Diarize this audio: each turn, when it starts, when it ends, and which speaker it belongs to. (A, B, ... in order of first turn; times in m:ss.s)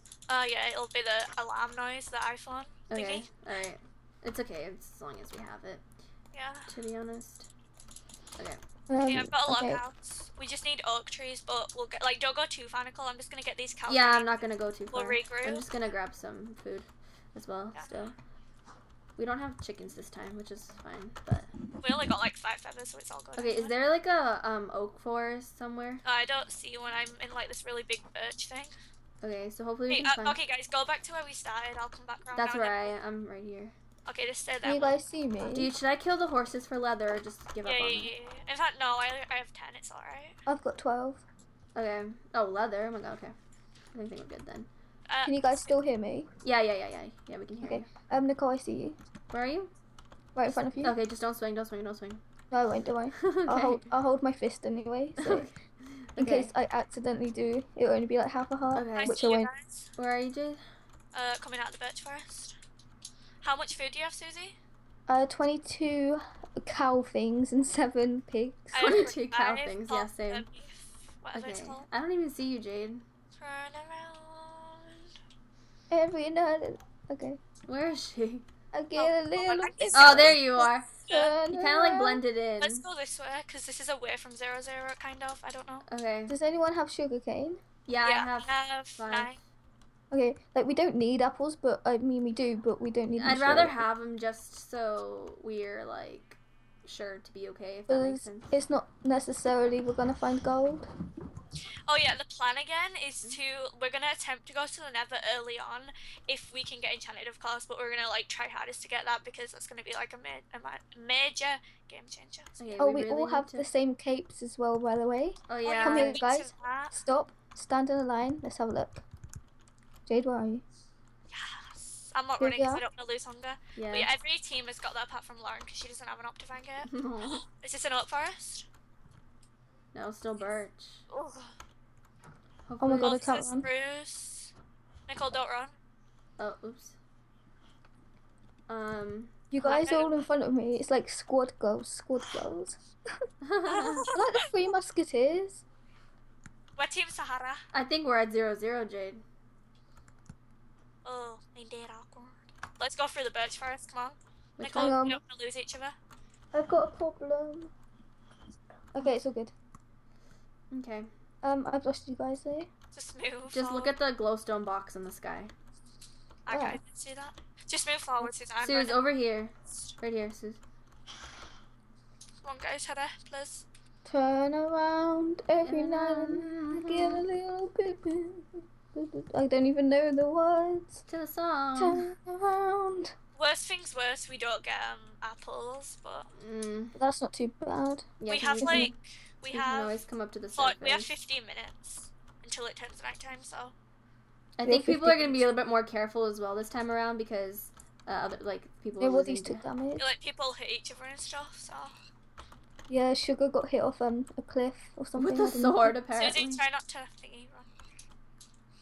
0:00.3-0:03.3 A
0:02.9-0:05.8 B
0:06.3-0:06.7 A
0:06.7-0:07.5 B
0:08.9-0:09.8 C
0:09.0-0:14.3 A
0:13.9-0:18.2 B
0:14.9-0:15.6 A
0:19.2-0:21.5 B
0:21.8-0:23.7 A
0:23.4-0:26.0 B
0:26.0-0:28.7 A
0:29.2-0:30.4 B
0:29.9-0:32.9 A
0:32.4-0:33.7 B
0:34.0-0:35.0 A
0:34.6-0:35.7 C
0:35.5-0:38.1 B
0:37.6-0:40.3 A
0:40.5-0:41.2 C
0:41.7-0:43.3 B
0:43.9-0:44.7 B
0:45.1-0:45.8 A
0:45.2-0:46.3 C
0:46.4-0:47.9 B
0:47.6-0:49.0 C
0:49.3-0:49.7 B
0:50.3-0:51.0 C
0:50.8-0:52.2 B
0:52.5-0:55.5 C
0:53.2-0:53.9 B
0:55.2-0:56.5 B
0:56.2-0:59.5 C
0:58.7-0:59.2 B
0:59.0-0:59.9 A
1:00.0-1:00.6 B
1:01.1-1:02.5 A
1:03.4-1:04.6 A
1:05.1-1:09.1 C
1:08.7-1:11.8 A
1:08.8-1:10.5 B
1:11.3-1:13.0 B
1:13.4-1:15.0 A
1:15.9-1:17.4 C
1:17.7-1:18.4 B
1:18.7-1:22.2 C
1:18.9-1:20.4 A
1:19.9-1:20.9 B
1:21.1-1:21.3 A
1:21.5-1:22.8 B
1:22.6-1:25.8 A
1:25.9-1:26.3 B
1:26.3-1:27.6 C
1:27.9-1:29.4 B
1:28.0-1:29.4 A
1:30.1-1:33.8 C
1:33.2-1:38.5 B
1:37.9-1:40.9 C
1:41.9-1:52.7 A
1:52.6-1:53.7 B
1:52.8-1:59.0 C
1:55.5-1:56.2 B
1:55.6-1:57.0 A
2:00.0-2:00.6 C
2:01.3-2:08.6 A
2:02.4-2:02.8 C
2:03.8-2:04.1 B
2:06.8-2:07.4 B
2:09.9-2:11.0 B
2:11.1-2:11.5 A
2:12.7-2:13.2 B
2:12.8-2:13.7 C
2:12.9-2:14.5 A
2:15.1-2:15.7 A
2:16.4-2:17.0 B
2:18.7-2:19.4 B
2:19.5-2:22.8 C
2:19.6-2:20.2 A
2:23.4-2:24.1 B
2:23.6-2:24.4 A
2:24.1-2:25.6 C
2:26.8-2:27.6 A
2:27.7-2:29.2 B
2:31.0-2:36.0 A
2:34.6-2:35.0 B
2:34.7-2:35.2 C
2:36.5-2:37.7 C
2:38.9-2:39.5 C
2:40.7-2:41.1 B
2:41.4-2:42.7 C
2:42.9-2:43.9 A
2:43.5-2:45.5 B
2:46.4-2:49.0 A
2:46.5-2:46.8 C
2:48.6-2:50.6 B
2:52.4-2:53.6 A
2:54.0-3:01.0 C
2:55.6-2:57.2 B
3:01.1-3:02.1 B
3:01.8-3:03.1 C
3:03.4-3:06.3 A
3:06.4-3:07.0 B
3:07.0-3:08.9 C
3:08.2-3:08.9 B
3:08.3-3:10.0 A
3:09.5-3:11.1 B
3:10.6-3:13.7 A
3:14.6-3:19.6 B
3:14.6-3:15.4 C
3:19.0-3:20.1 C
3:20.0-3:21.9 A
3:22.9-3:26.0 C
3:25.2-3:26.6 B
3:26.1-3:27.7 A